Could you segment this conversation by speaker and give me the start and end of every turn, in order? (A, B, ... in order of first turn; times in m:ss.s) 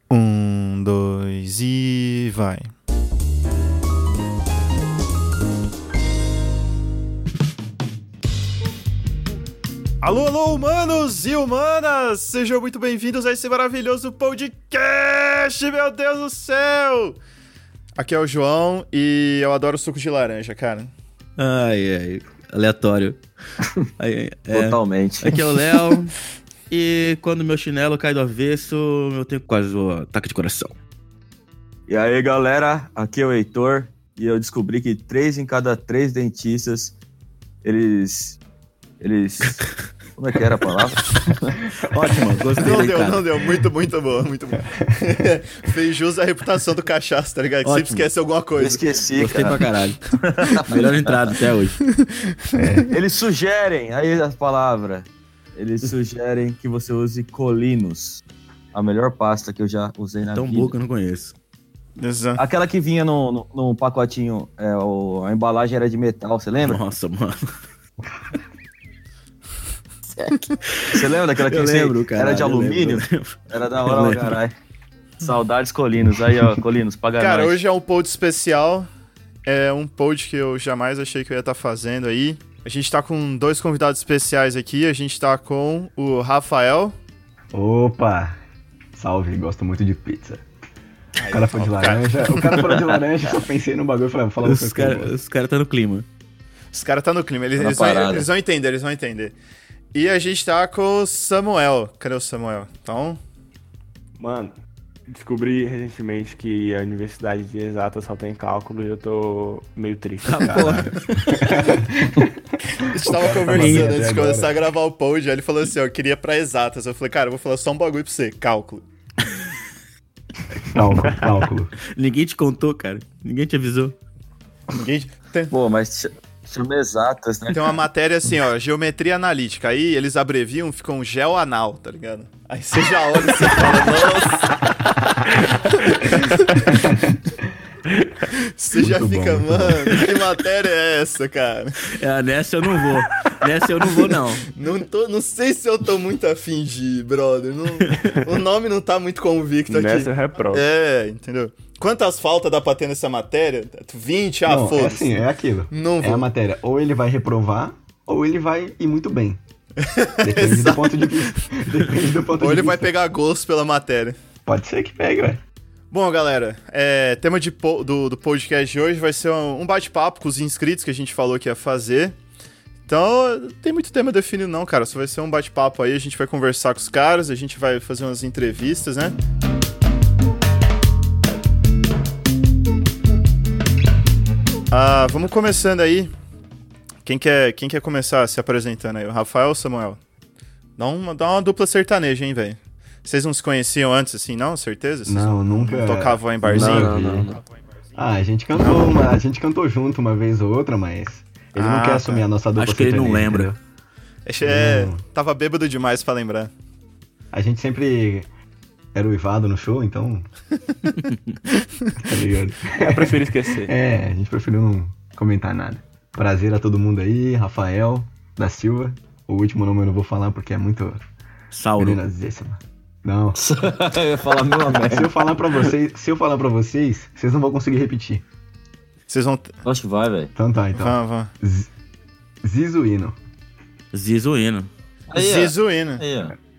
0:00.1-0:02.7 A
0:10.0-0:17.2 A
0:18.0-0:20.9 A
0:21.4-0:23.2 B
0:24.0-0:26.1 B
0:24.5-0:25.6 C
0:26.7-0:30.7 B
0:31.9-0:36.9 C
0:37.6-0:38.4 C
0:39.0-0:41.6 C
0:41.7-0:43.4 B
0:42.6-0:49.0 A
0:47.6-0:48.1 B
0:48.6-0:51.3 C
0:49.1-0:51.8 B
0:51.8-0:52.9 A
0:52.5-0:52.9 D
0:52.9-0:58.2 C
0:58.7-1:00.7 C
1:00.3-1:01.3 B
1:02.0-1:02.4 A
1:02.4-1:06.8 C
1:06.6-1:07.4 B
1:10.7-1:14.4 B
1:10.9-1:14.5 C
1:15.2-1:17.6 C
1:17.2-1:18.9 A
1:19.4-1:26.9 A
1:27.5-1:28.4 D
1:28.9-1:30.4 D
1:31.2-1:32.7 A
1:31.3-1:35.2 D
1:32.7-1:32.9 C
1:34.4-1:36.0 B
1:36.7-1:39.3 A
1:37.6-1:38.3 C
1:39.9-1:43.2 A
1:44.2-1:44.5 E
1:45.1-1:50.7 E
1:50.2-1:51.5 B
1:50.4-1:52.3 D
1:52.8-1:58.8 A
1:53.0-1:54.5 D
1:53.5-1:54.0 B
2:00.6-2:01.7 D
2:01.9-2:04.0 B
2:04.7-2:05.5 A
2:05.5-2:07.8 C
2:07.5-2:14.6 A
2:15.4-2:16.7 A
2:16.7-2:17.1 D
2:18.3-2:21.9 A
2:18.8-2:20.0 D
2:21.9-2:24.5 B
2:24.5-2:36.3 A
2:27.8-2:28.2 B
2:29.7-2:30.6 E
2:34.4-2:39.4 D
2:39.8-2:41.5 A
2:40.2-2:42.9 D
2:42.4-2:44.2 A
2:44.4-2:45.4 D
2:45.9-2:52.2 A
2:52.9-2:59.1 A
3:04.7-3:06.1 A
3:07.0-3:10.0 A
3:10.8-3:17.0 A
3:15.0-3:17.3 D
3:16.5-3:17.4 E
3:18.0-3:23.6 D
3:18.6-3:18.9 A
3:21.5-3:22.2 A
3:22.6-3:23.5 B
3:24.2-3:26.5 A
3:24.4-3:25.0 D
3:27.3-3:28.3 D
3:28.9-3:30.3 D
3:32.0-3:41.0 D
3:32.7-3:33.7 E
3:41.5-3:42.0 B
3:41.8-3:43.4 D
3:43.3-3:45.7 C
3:44.7-3:48.2 D
3:49.1-3:49.5 A
3:49.6-3:50.3 C
3:50.4-3:51.7 D
3:50.8-3:51.3 A
3:52.4-3:53.2 D
3:53.9-3:54.7 B
3:55.1-3:56.3 C
3:55.1-3:56.0 A